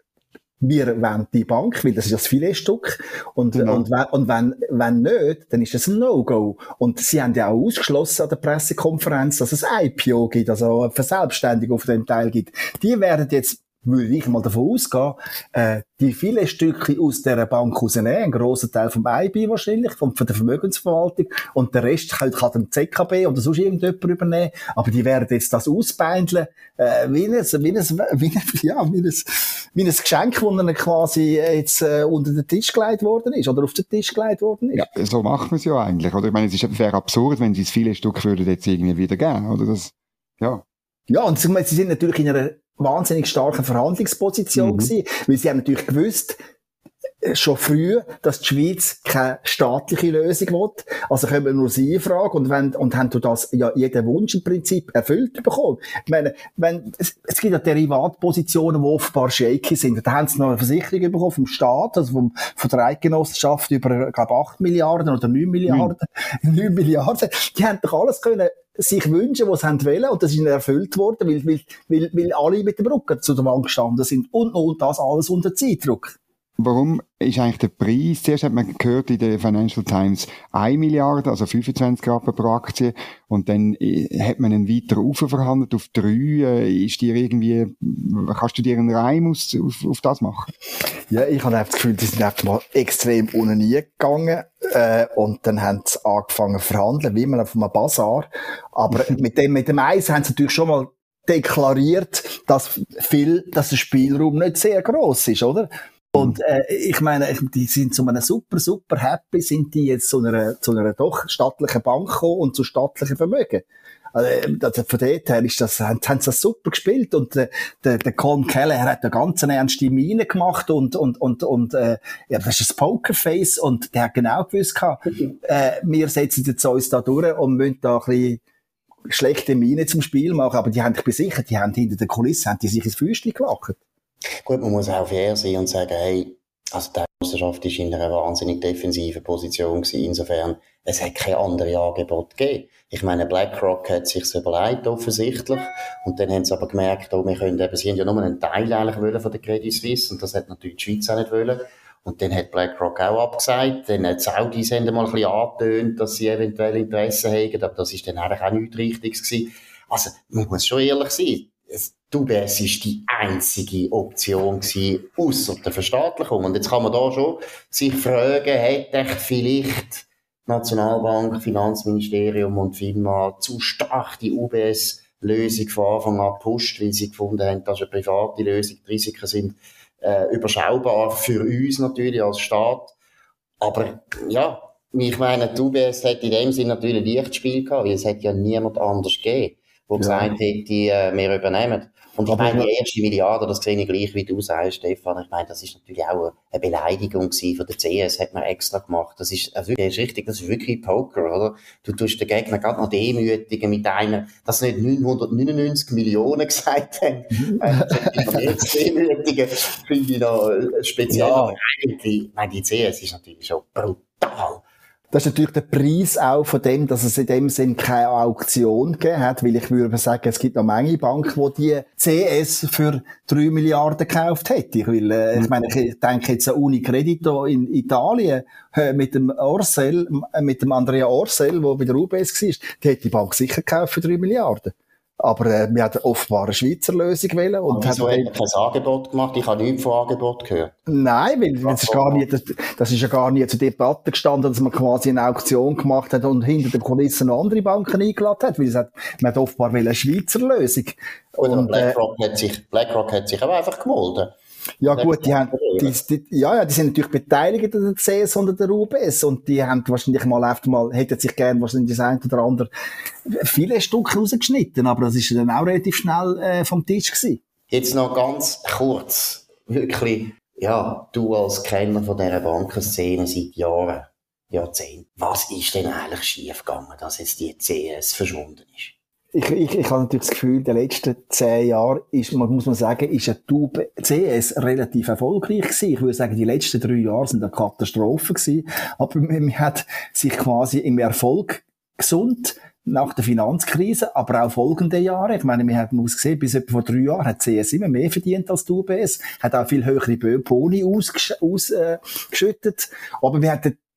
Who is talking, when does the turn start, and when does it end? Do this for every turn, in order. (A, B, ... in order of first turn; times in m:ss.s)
0:00.6-0:34.9 A
0:03.6-0:03.9 B
0:34.8-0:40.6 B
0:41.1-0:46.4 A
0:44.6-0:44.9 B
0:47.2-1:16.2 A
1:16.6-1:30.5 B
1:31.1-2:08.4 A
2:09.1-2:13.8 A
2:14.5-3:03.0 C
3:03.6-3:34.6 C
3:10.0-3:10.3 A
3:12.3-3:12.7 A
3:31.1-3:31.6 A
3:35.1-3:58.3 A
3:57.7-4:00.8 C
4:00.9-4:12.0 A
4:01.6-4:02.2 C
4:11.4-4:14.3 C
4:14.8-4:22.7 A
4:14.9-4:16.0 C
4:23.3-4:27.4 A
4:27.7-4:39.0 C
4:39.3-5:03.8 A